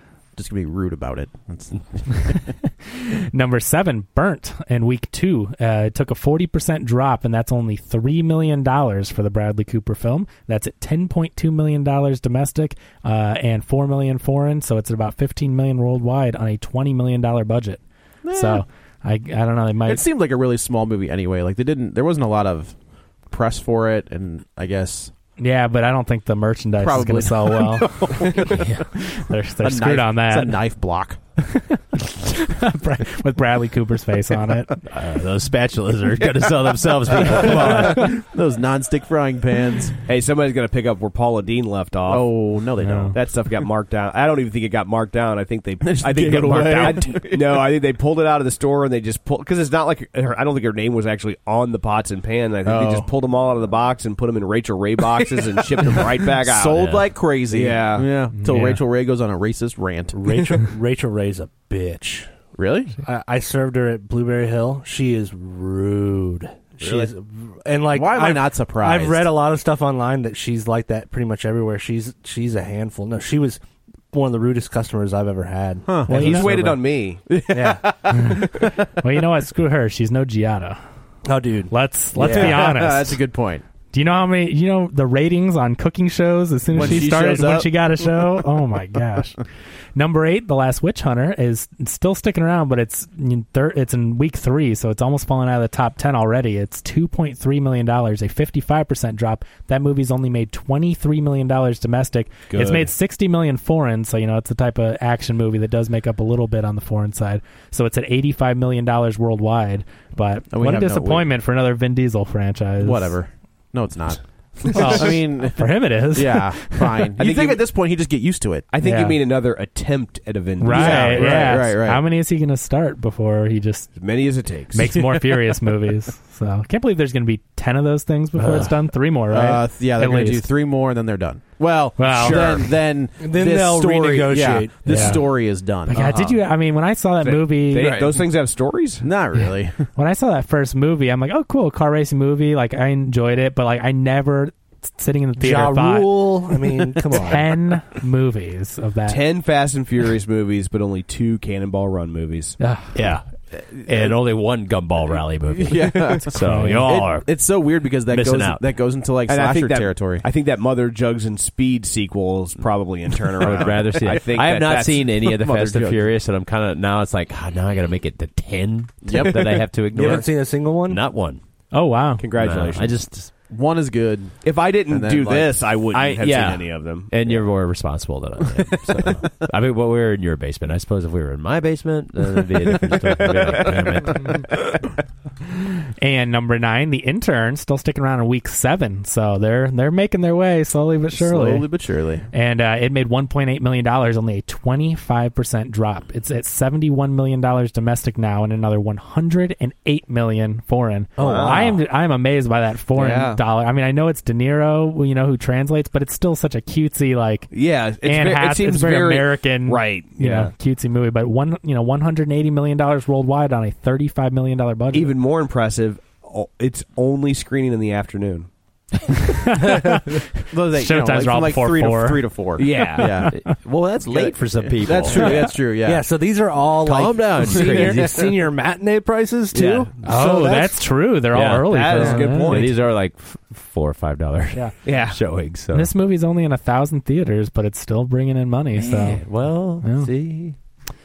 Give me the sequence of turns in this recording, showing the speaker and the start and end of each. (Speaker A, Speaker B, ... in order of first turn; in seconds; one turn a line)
Speaker A: 0.4-2.5
Speaker B: 2.1-20.1
Speaker A: 18.2-18.6
Speaker A: 19.9-25.1
Speaker B: 25.4-30.7
Speaker A: 26.8-28.7
Speaker A: 29.6-31.2
Speaker B: 31.4-34.8
Speaker C: 34.9-38.2
Speaker A: 37.3-40.0
Speaker D: 40.1-42.5
Speaker A: 42.1-43.2
Speaker B: 42.8-43.2
Speaker D: 43.1-58.1
Speaker A: 45.8-47.7
Speaker A: 52.6-53.1
Speaker A: 55.9-60.2
Speaker B: 58.4-58.8
Speaker E: 60.1-62.3
Speaker A: 62.5-63.0
Speaker E: 63.0-73.6
Speaker A: 66.8-67.1
Speaker A: 67.9-69.3
Speaker E: 74.1-76.8
Speaker A: 75.9-76.5
Speaker B: 76.1-76.5
Speaker D: 76.1-77.2
Speaker A: 77.3-78.7
Speaker E: 77.5-78.1
Speaker B: 78.1-80.8
Speaker E: 81.3-82.6
Speaker B: 81.7-83.2
Speaker A: 82.2-83.6
Speaker B: 83.9-89.4
Speaker A: 86.7-88.2
Speaker B: 90.0-113.2
Speaker A: 102.5-102.8
Speaker A: 110.5-111.3
Speaker A: 112.8-118.7
Speaker B: 114.7-117.1
Speaker D: 117.2-117.7
Speaker D: 118.7-121.6
Speaker B: 118.8-119.2
Speaker B: 120.6-124.0
Speaker A: 120.7-122.0
Speaker D: 124.0-124.9
Speaker B: 124.7-130.5
Speaker A: 128.4-128.7
Speaker A: 129.2-136.1
Speaker B: 132.0-132.5
Speaker D: 132.2-132.6
Speaker E: 133.2-135.2
Speaker B: 134.9-138.0
Speaker D: 135.9-136.4
Speaker D: 137.2-139.1
Speaker A: 137.8-138.2
Speaker A: 139.0-139.9
Speaker B: 139.9-146.4
Speaker E: 145.4-147.5
Speaker B: 147.1-149.2
Speaker D: 149.1-152.6
Speaker B: 152.6-152.9
Speaker C: 152.9-157.6
Speaker D: 153.8-154.1
Speaker A: 155.6-160.2
Speaker B: 156.3-156.9
Speaker C: 158.1-158.6
Speaker D: 159.3-165.1
Speaker A: 163.4-164.2
Speaker C: 163.4-171.4
Speaker A: 165.2-166.1
Speaker A: 169.1-170.2
Speaker E: 169.9-171.0
Speaker B: 171.7-172.2
Speaker D: 172.2-172.9
Speaker C: 172.3-173.3
Speaker A: 173.3-175.7
Speaker D: 174.4-177.1
Speaker C: 175.9-184.6
Speaker B: 186.0-191.7
Speaker A: 191.1-192.3
Speaker B: 192.3-207.5
Speaker D: 201.2-201.8
Speaker D: 202.9-203.4
Speaker D: 207.5-210.5
Speaker B: 208.0-215.1
Speaker D: 214.9-218.5
Speaker B: 219.2-223.3
Speaker A: 220.5-223.4
Speaker D: 222.6-223.2
Speaker C: 223.3-225.4
Speaker A: 224.1-226.1
Speaker E: 225.8-230.8
Speaker C: 226.8-228.3
Speaker A: 227.4-228.2
Speaker D: 229.5-229.9
Speaker B: 230.0-232.7
Speaker C: 231.3-235.9
Speaker D: 231.4-232.8
Speaker D: 234.8-235.2
Speaker B: 235.7-240.1
Speaker C: 238.8-240.6